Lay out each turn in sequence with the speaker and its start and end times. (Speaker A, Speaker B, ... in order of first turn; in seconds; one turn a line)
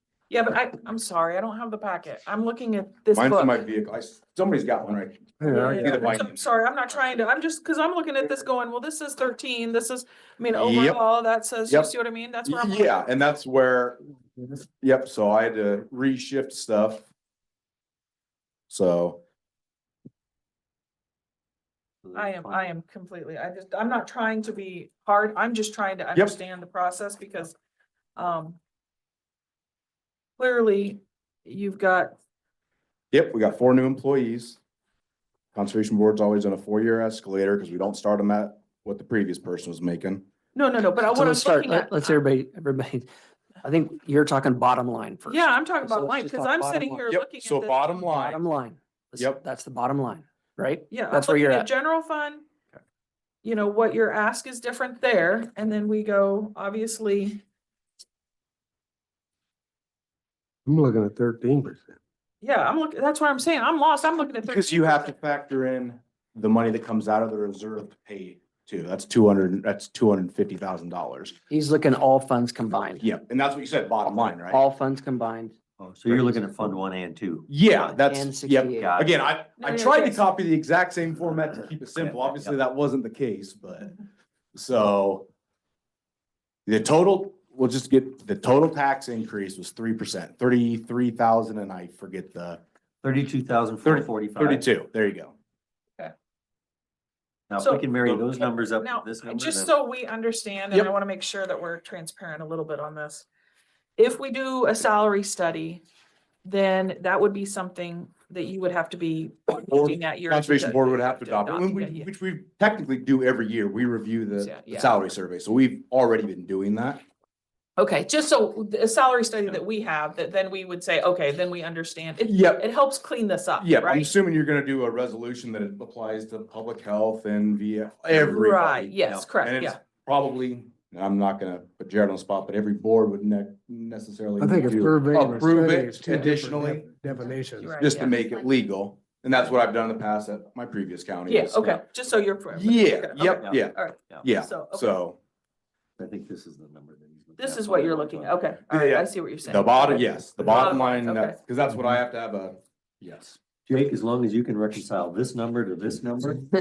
Speaker A: 0.3-3.6
Speaker B: 3.1-6.4
Speaker C: 5.4-6.0
Speaker A: 5.5-13.1
Speaker B: 10.6-11.0
Speaker B: 11.7-11.9
Speaker B: 12.4-14.0
Speaker B: 14.8-17.1
Speaker B: 18.7-19.2
Speaker D: 22.0-22.7
Speaker A: 22.1-27.6
Speaker A: 28.2-28.6
Speaker A: 30.4-32.1
Speaker B: 33.1-34.6
Speaker B: 35.5-40.2
Speaker A: 40.5-42.2
Speaker E: 41.1-43.1
Speaker E: 43.6-47.1
Speaker A: 45.3-48.1
Speaker B: 47.1-48.4
Speaker E: 48.1-51.7
Speaker B: 49.2-49.4
Speaker A: 50.9-52.5
Speaker A: 53.4-57.4
Speaker C: 60.7-62.0
Speaker A: 62.4-65.2
Speaker B: 64.5-71.4
Speaker E: 71.5-73.1
Speaker B: 73.0-74.6
Speaker E: 74.5-75.5
Speaker D: 75.8-77.5
Speaker B: 76.1-76.4
Speaker B: 77.5-83.9
Speaker E: 77.7-79.0
Speaker D: 78.8-79.2
Speaker A: 79.6-80.3
Speaker D: 82.0-82.5
Speaker B: 84.5-85.3
Speaker B: 86.7-92.6
Speaker D: 93.0-94.7
Speaker B: 93.8-95.4
Speaker D: 97.5-99.7
Speaker A: 97.6-103.3
Speaker A: 104.0-105.8
Speaker A: 106.4-112.1
Speaker B: 109.6-117.0
Speaker A: 114.4-115.0
Speaker A: 117.8-124.1
Speaker B: 122.2-122.7
Speaker B: 123.6-136.9
Speaker A: 128.1-129.8
Speaker C: 134.4-137.8
Speaker A: 137.6-138.2
Speaker B: 137.8-141.8
Speaker A: 141.3-145.0
Speaker B: 142.5-145.2
Speaker D: 143.4-144.3
Speaker D: 146.0-148.4
Speaker A: 147.4-151.4
Speaker B: 148.7-153.4
Speaker D: 153.7-156.4